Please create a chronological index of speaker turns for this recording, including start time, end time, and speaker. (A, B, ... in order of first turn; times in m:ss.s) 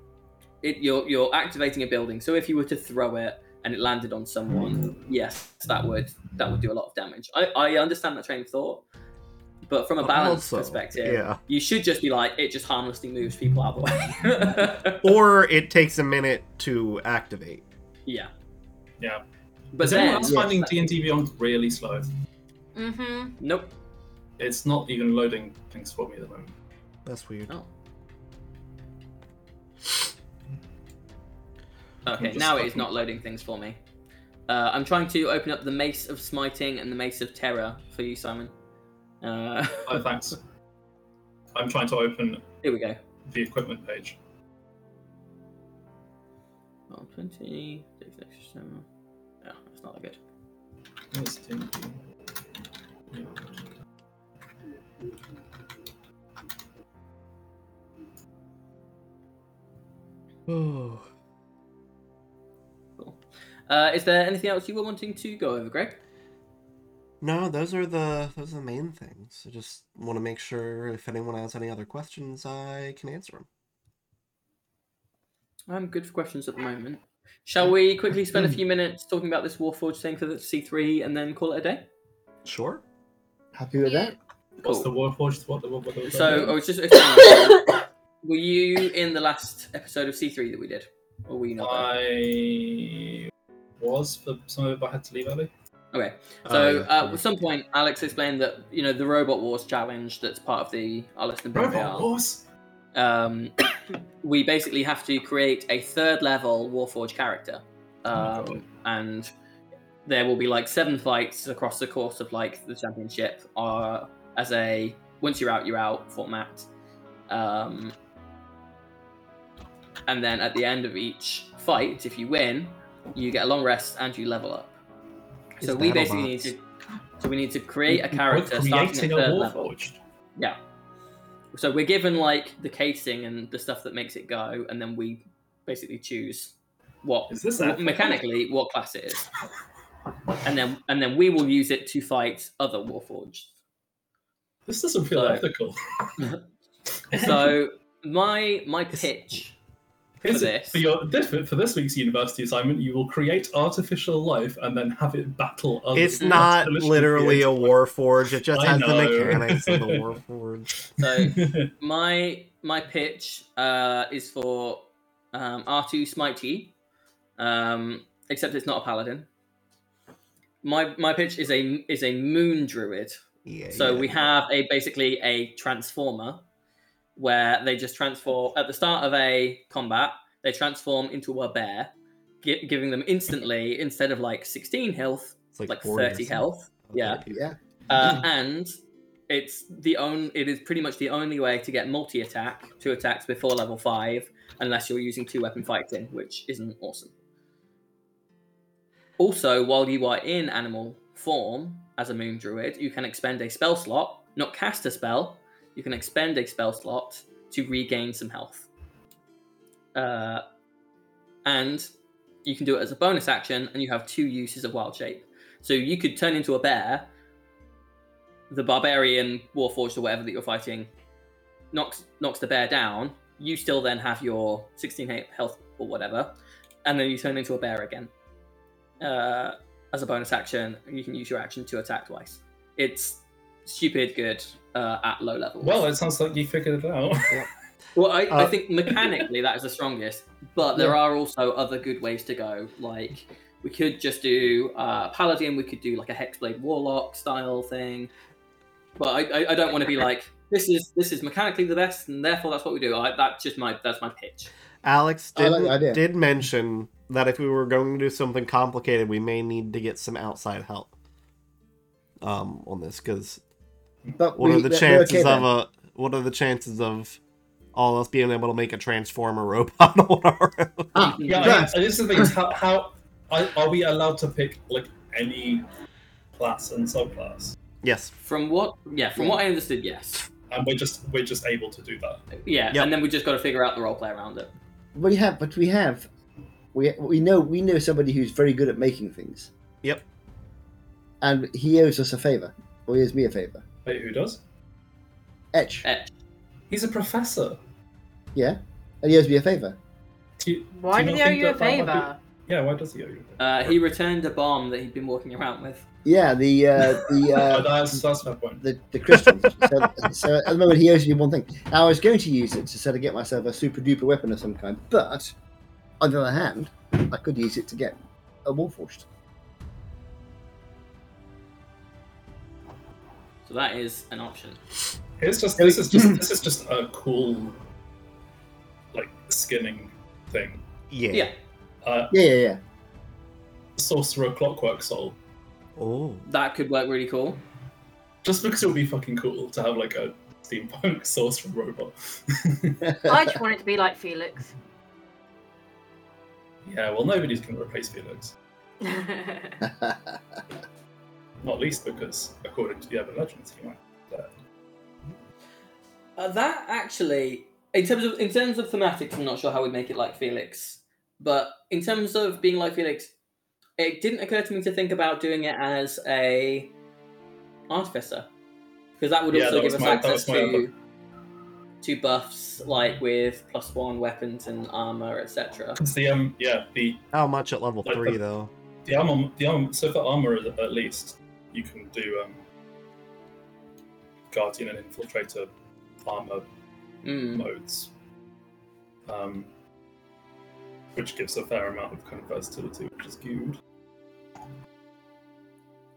0:00.6-0:08.8 A
0:09.7-0:15.1 A
0:10.0-0:11.4 B
0:15.0-0:17.6 B
0:18.1-0:18.3 A
0:19.7-0:20.8 A
0:19.8-0:22.1 C
0:20.2-0:20.6 D
0:22.8-0:23.4 E
0:23.4-0:23.7 A
0:24.4-0:26.5 C
0:27.0-0:27.6 B
0:32.0-0:33.8 A
0:32.1-0:32.9 C
0:34.5-0:38.5 A
0:39.2-0:40.0 A
0:39.9-0:40.4 C
0:41.6-0:42.4 C
0:42.6-0:43.0 A
0:43.3-0:44.2 C
0:46.9-0:48.8 A
0:49.4-0:50.2 A
0:51.1-0:52.0 C
0:53.1-0:53.5 C
1:00.5-1:01.0 B
1:03.0-1:06.0 A
1:07.2-1:13.5 B
1:15.7-1:21.8 A
1:22.4-1:22.8 B
1:23.6-1:24.2 D
1:23.8-1:24.1 E
1:24.6-1:24.9 A
1:24.6-1:26.6 C
1:26.0-1:31.9 A
1:31.6-1:35.5 C
1:35.9-1:42.1 A
1:36.4-1:37.2 B
1:41.5-1:42.4 C
1:42.9-1:43.6 A
1:44.2-1:49.3 A
1:48.1-1:48.6 C
1:50.0-1:56.7 A
1:57.3-1:58.0 A
2:00.1-2:04.8 A
2:05.6-2:06.6 A
2:05.6-2:06.5 B
2:07.2-2:09.7 A
2:07.9-2:10.0 C
2:11.5-2:19.3 A
2:17.3-2:18.2 C
2:20.4-2:23.5 A
2:24.7-2:26.3 C
2:25.1-2:25.5 A
2:27.1-2:27.6 C
2:27.1-2:29.6 A
2:30.2-2:37.8 C
2:30.3-2:30.8 A
2:35.9-2:40.7 B
2:36.2-2:36.5 A
2:38.5-2:40.0 C
2:41.0-2:46.8 A
2:41.0-2:41.7 C
2:47.4-2:49.3 A
2:50.6-2:53.2 A
2:53.5-2:54.4 B
2:53.7-2:56.4 A
2:57.2-3:01.9 A
3:02.4-3:07.2 A
3:05.6-3:07.4 B
3:07.3-3:07.6 D
3:07.9-3:08.8 A
3:09.3-3:17.1 A
3:19.2-3:28.7 A
3:30.0-3:30.4 A
3:31.4-3:31.9 A
3:32.4-3:37.1 A
3:38.5-3:40.9 A
3:41.7-3:48.1 A
3:49.0-3:55.8 A
3:55.6-3:57.4 C
3:58.0-4:08.1 A
4:09.0-4:14.5 A
4:14.8-4:20.9 B
4:15.4-4:16.0 D
4:22.2-4:23.4 B
4:24.2-4:25.5 D
4:24.4-4:27.2 B
4:27.7-4:31.1 B
4:30.9-4:32.3 D
4:31.1-4:31.7 A
4:31.2-4:35.7 C
4:36.4-4:37.6 C
4:37.8-4:38.1 B
4:38.2-4:40.3 A
4:40.5-4:42.2 C
4:42.4-4:44.5 A
4:45.0-4:46.1 D
4:46.7-4:49.5 D
4:51.2-4:53.6 D
4:53.8-4:54.4 C
4:55.5-4:55.9 D
4:55.8-4:56.1 A
4:56.7-4:57.6 C
4:58.3-4:59.8 D
5:00.4-5:03.7 C
5:00.7-5:02.2 E
5:03.4-5:05.9 A
5:06.0-5:08.0 D
5:07.3-5:08.6 C
5:08.6-5:15.3 D
5:09.3-5:09.5 B
5:16.0-5:19.1 D
5:23.5-5:24.6 A
5:25.2-5:27.6 C
5:25.6-5:26.2 D
5:28.9-5:30.6 C
5:30.9-5:31.3 B
5:31.8-5:32.2 C
5:32.1-5:32.6 D
5:33.8-5:35.2 C
5:35.8-5:36.2 B
5:36.3-5:37.4 A
5:38.2-5:43.0 C
5:43.0-5:44.5 E
5:46.6-5:48.3 C
5:48.8-5:49.6 E
5:49.6-5:50.2 D
5:51.4-5:54.3 C
5:56.2-6:03.1 A
6:03.8-6:06.7 A
6:07.7-6:08.3 A
6:09.0-6:10.7 A
6:09.3-6:10.7 C
6:11.8-6:15.8 A
6:15.8-6:17.0 C
6:17.1-6:18.5 B
6:17.8-6:18.2 C
6:18.9-6:22.4 C
6:24.3-6:25.5 C
6:26.0-6:26.5 C
6:27.0-6:27.5 A
6:27.3-6:27.9 C
6:29.1-6:29.5 C
6:31.0-6:33.6 C